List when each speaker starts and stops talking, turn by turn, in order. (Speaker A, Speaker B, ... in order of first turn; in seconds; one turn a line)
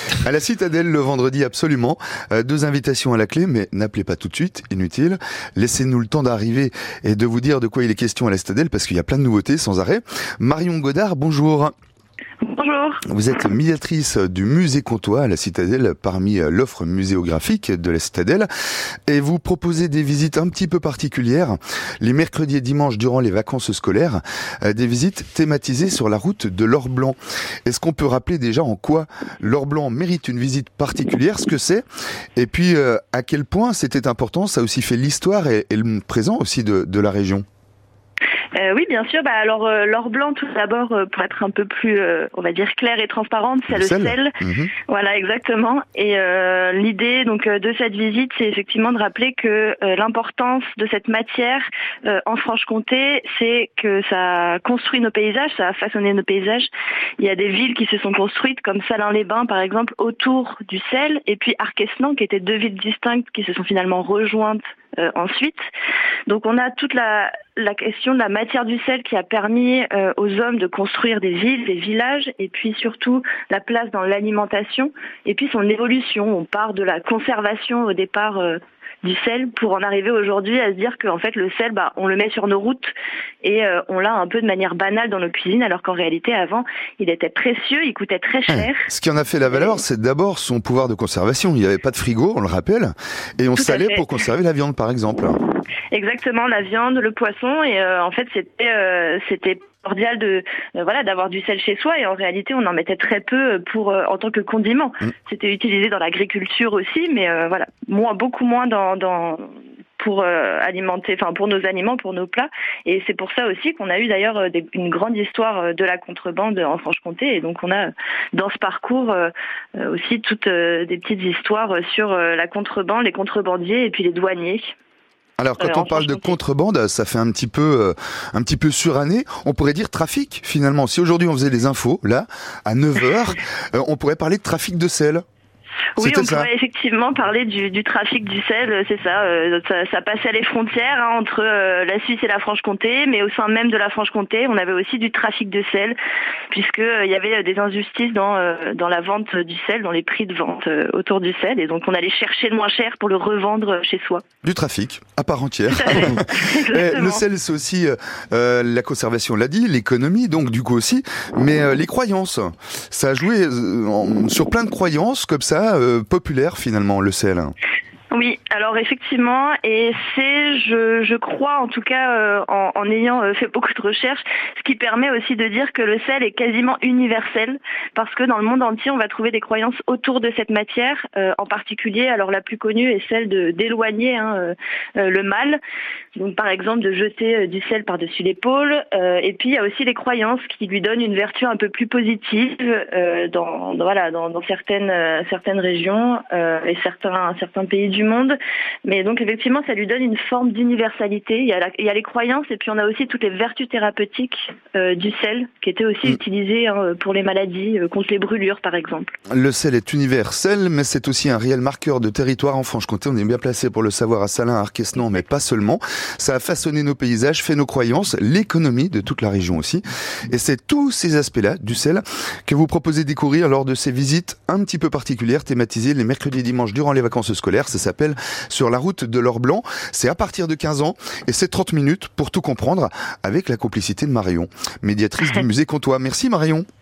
Speaker A: 0.2-11.7
Speaker B: 12.4-13.0
Speaker A: 13.1-18.5
Speaker A: 19.1-31.8
Speaker A: 32.4-37.4
Speaker B: 38.5-44.3
Speaker A: 43.7-44.7
Speaker B: 44.9-65.6
Speaker B: 66.3-88.8
Speaker A: 88.5-95.4
Speaker B: 89.5-89.8
Speaker B: 93.6-94.0
Speaker B: 95.9-124.7
Speaker A: 125.4-135.2
Speaker B: 125.6-126.4
Speaker B: 135.9-146.0
Speaker A: 136.0-136.5
Speaker B: 146.5-154.2
Speaker A: 154.4-167.5
Speaker B: 155.7-157.2
Speaker B: 168.1-185.6
Speaker B: 186.2-209.1
Speaker A: 209.3-236.7